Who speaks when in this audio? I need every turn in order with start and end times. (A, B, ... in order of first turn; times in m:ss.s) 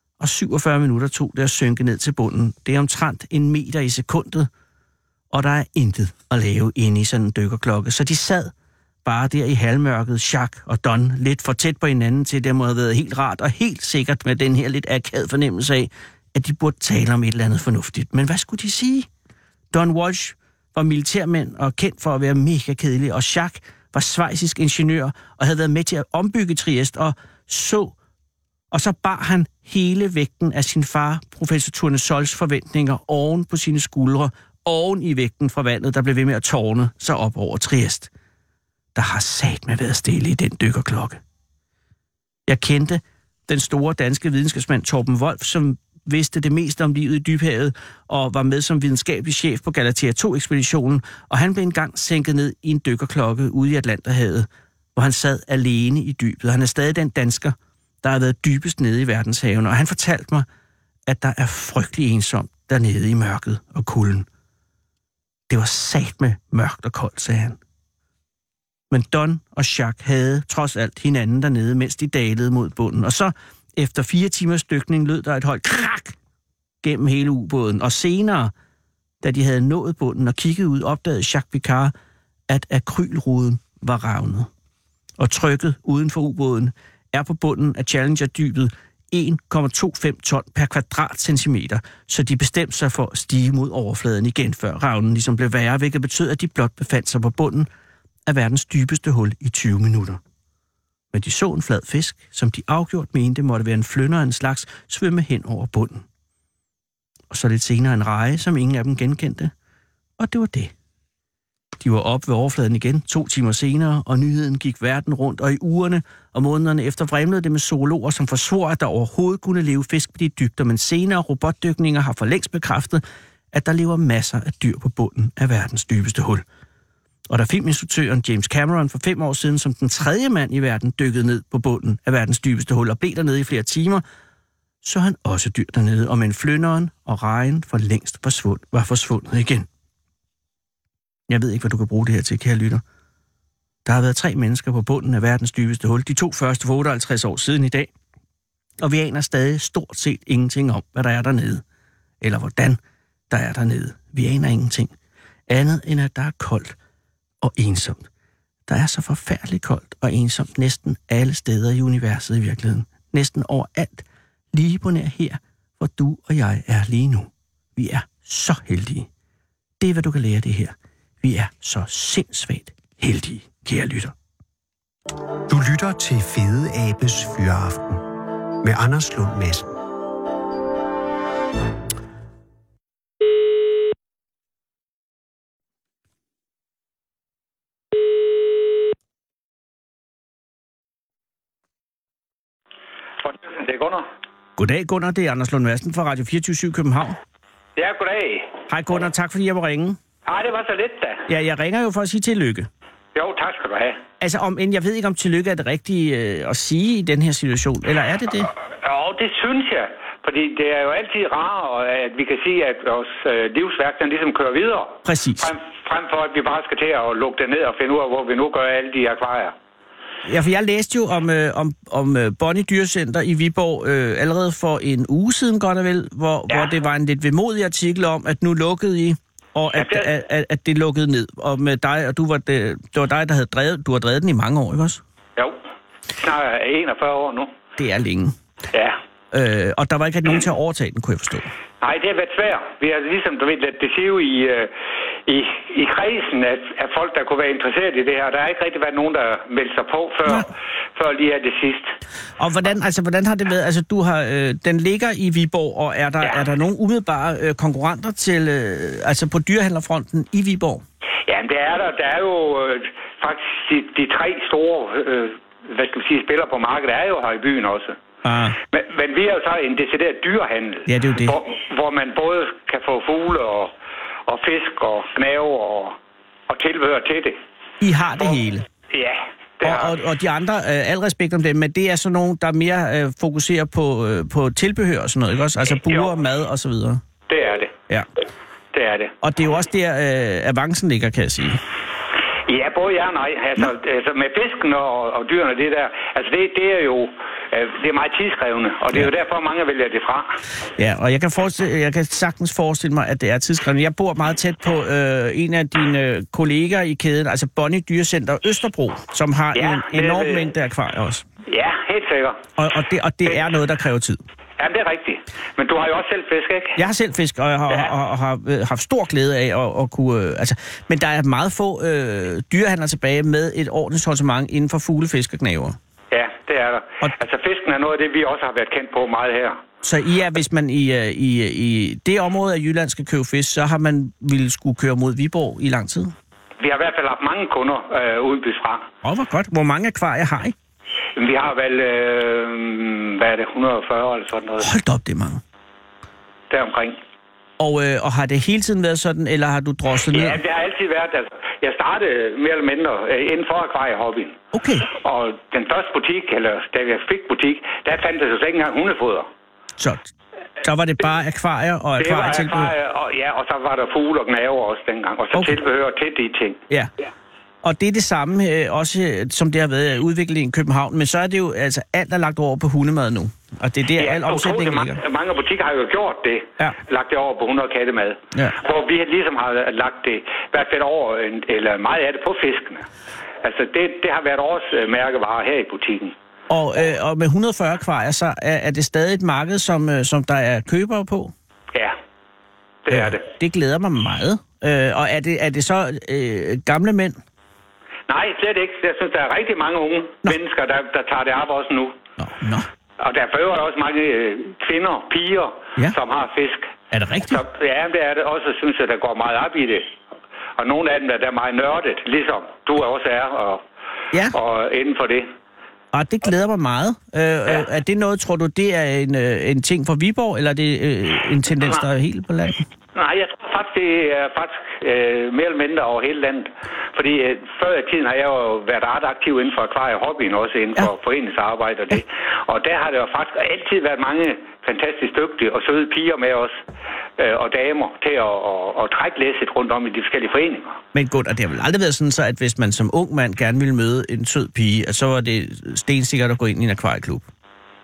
0:00.2-0:04.5 A
0:05.3-0:08.5 A
0:09.0-0:19.1 A
0:19.7-0:27.9 A
0:28.7-0:38.1 A
0:39.0-0:41.2 A
0:42.5-1:00.5 A
1:01.1-1:04.3 A
1:05.5-1:07.6 A
1:08.9-1:16.2 A
1:16.8-1:18.5 A
1:19.2-1:21.9 A
1:22.5-1:24.5 A
1:25.2-1:37.7 A
1:38.3-1:40.2 A
1:41.1-1:46.0 A
1:47.3-1:49.5 A
1:50.2-1:50.7 A
1:51.8-2:06.4 A
2:07.3-2:14.0 A
2:14.8-2:19.7 A
2:21.3-2:22.8 A
2:23.8-2:27.9 A
2:28.8-2:31.6 A
2:32.2-2:32.8 A
2:33.3-2:34.9 A
2:35.5-2:36.8 A
2:37.4-2:38.1 A
2:38.7-2:49.1 A
2:49.8-2:54.1 A
2:55.5-2:58.0 B
2:58.6-2:59.7 B
3:13.2-3:14.1 C
3:14.6-3:17.2 A
3:17.8-3:18.6 C
3:18.7-3:20.0 A
3:20.2-3:21.3 C
3:21.3-3:22.7 A
3:23.1-3:24.0 C
3:24.2-3:28.5 A
3:28.8-3:39.6 C
3:35.0-3:35.5 A
3:40.2-3:55.0 A
3:46.5-3:46.8 C
3:49.8-3:50.1 C
3:56.2-3:57.5 C
3:57.8-3:58.4 A
3:58.7-3:59.0 C
3:59.3-4:01.5 A
4:01.8-4:04.7 C
4:05.3-4:11.9 C
4:12.4-4:20.8 A
4:21.3-4:28.0 C
4:28.2-4:28.6 A
4:28.7-4:33.7 C
4:30.9-4:31.4 A
4:34.3-4:36.0 C
4:36.5-4:37.4 C
4:37.8-4:38.7 A
4:38.9-4:40.0 C
4:39.6-4:47.0 A
4:45.7-4:46.1 C
4:47.3-4:47.8 C
4:48.7-4:49.2 C
4:49.2-4:51.6 A
4:52.5-5:00.4 C
5:00.8-5:11.3 A
5:09.5-5:10.5 C
5:11.5-5:12.5 C
5:12.6-5:14.2 A
5:14.6-5:16.8 C
5:16.8-5:25.8 A
5:26.1-5:29.6 C
5:29.8-5:36.1 A
5:36.6-5:38.9 C
5:39.0-5:40.6 A
5:41.2-5:44.7 C
5:44.6-5:45.4 A
5:46.5-5:47.0 C
5:47.6-5:50.4 A
5:50.0-5:54.4 C
5:54.5-5:54.9 A
5:54.9-5:59.3 C
5:59.8-6:02.7 A
6:02.0-6:06.6 C
6:05.3-6:05.6 A
6:07.6-6:15.0 A
6:14.0-6:22.9 C
6:23.4-6:26.2 C
6:26.5-6:31.3 A
6:32.8-6:33.2 C
6:32.9-6:37.2 A
6:38.1-6:42.0 C
6:42.2-6:42.7 A
6:43.0-6:46.7 C
6:46.9-6:47.4 A
6:47.3-6:49.9 C
6:50.6-6:53.6 C
6:54.3-6:55.3 C
6:55.9-7:02.6 A
7:03.0-7:16.5 C
7:17.2-7:20.8 C
7:20.9-7:27.3 A